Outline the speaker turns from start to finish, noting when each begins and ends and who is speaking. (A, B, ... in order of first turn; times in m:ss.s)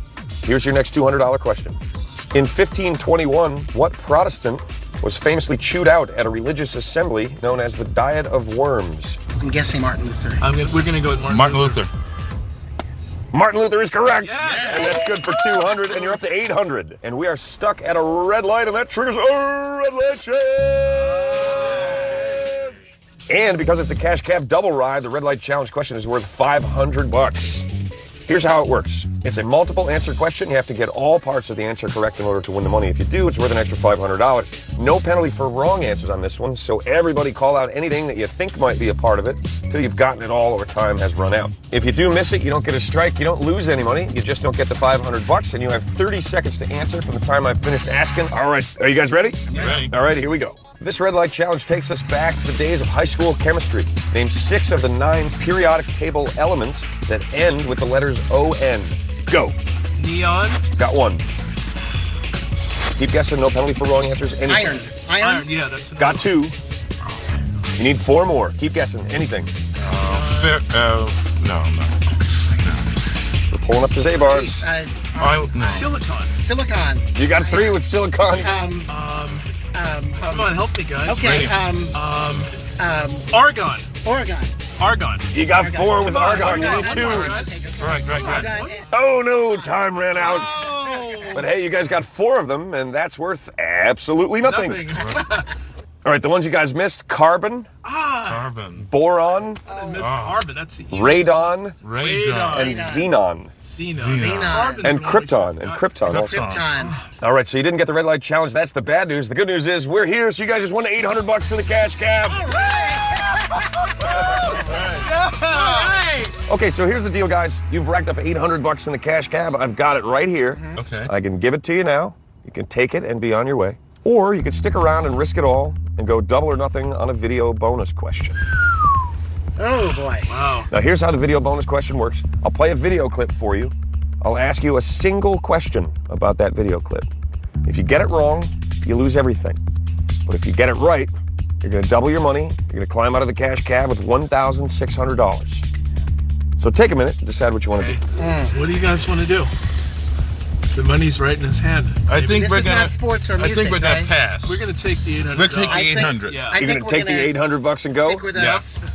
0:00.4-0:01.8 A
0:02.3-0:09.2 A
0:09.4-0:10.5 B
0:10.4-0:11.8 C
0:11.2-0:11.9 D
0:13.3-0:22.7 A
0:14.2-0:15.1 C
0:14.5-0:14.8 D
0:21.0-0:22.2 C
0:21.7-0:22.2 B
0:23.3-0:27.7 A
0:28.3-0:59.6 A
0:49.5-0:50.0 D
1:00.0-1:00.6 C
1:00.7-1:01.2 A
1:02.8-1:04.8 A
1:04.4-1:05.5 B
1:05.2-1:06.4 C
1:06.0-1:06.6 A
1:07.8-1:09.5 A
1:09.8-1:13.0 D
1:09.9-1:10.6 C
1:13.5-1:14.6 A
1:14.2-1:17.8 B
1:15.2-1:15.9 D
1:15.6-1:16.3 C
1:17.2-1:18.6 A
1:18.4-1:18.9 B
1:18.9-1:19.5 C
1:19.7-1:22.0 B
1:20.3-1:22.6 C
1:21.2-1:21.6 D
1:22.7-1:23.3 B
1:23.3-1:23.9 C
1:24.0-1:24.7 B
1:24.8-1:25.3 C
1:25.3-1:27.4 A
1:25.4-1:28.9 B
1:26.0-1:28.8 C
1:27.8-1:28.5 D
1:28.9-1:30.7 A
1:30.2-1:31.5 B
1:30.2-1:31.4 C
1:31.3-1:35.0 A
1:34.4-1:35.5 C
1:35.0-1:35.3 D
1:36.0-1:37.7 A
1:37.8-1:38.5 C
1:38.3-1:38.9 D
1:38.8-1:39.6 A
1:39.7-1:42.9 C
1:39.7-1:40.0 B
1:40.0-1:40.4 D
1:40.9-1:41.8 A
1:41.8-1:42.7 D
1:42.5-1:43.5 A
1:42.6-1:43.1 B
1:43.6-1:45.8 C
1:43.9-1:44.7 D
1:44.1-1:45.0 B
1:44.8-1:46.4 A
1:46.0-1:46.8 D
1:46.1-1:47.0 B
1:47.2-1:52.5 A
1:52.2-1:56.4 B
1:54.6-1:56.0 D
1:56.5-2:08.4 A
2:00.8-2:01.1 D
2:09.6-2:10.4 B
2:10.2-2:10.7 C
2:10.7-2:17.1 A
2:17.6-2:19.6 A
2:20.2-2:25.6 A
2:26.6-2:28.0 A
2:27.7-2:28.0 C
2:28.2-2:28.7 B
2:28.5-2:29.5 C
2:30.7-2:32.4 C
2:32.1-2:34.6 D
2:32.3-2:34.1 B
2:34.4-2:36.6 C
2:35.2-2:36.6 D
2:35.7-2:37.4 B
2:36.6-2:38.3 A
2:37.9-2:38.8 B
2:38.3-2:38.6 D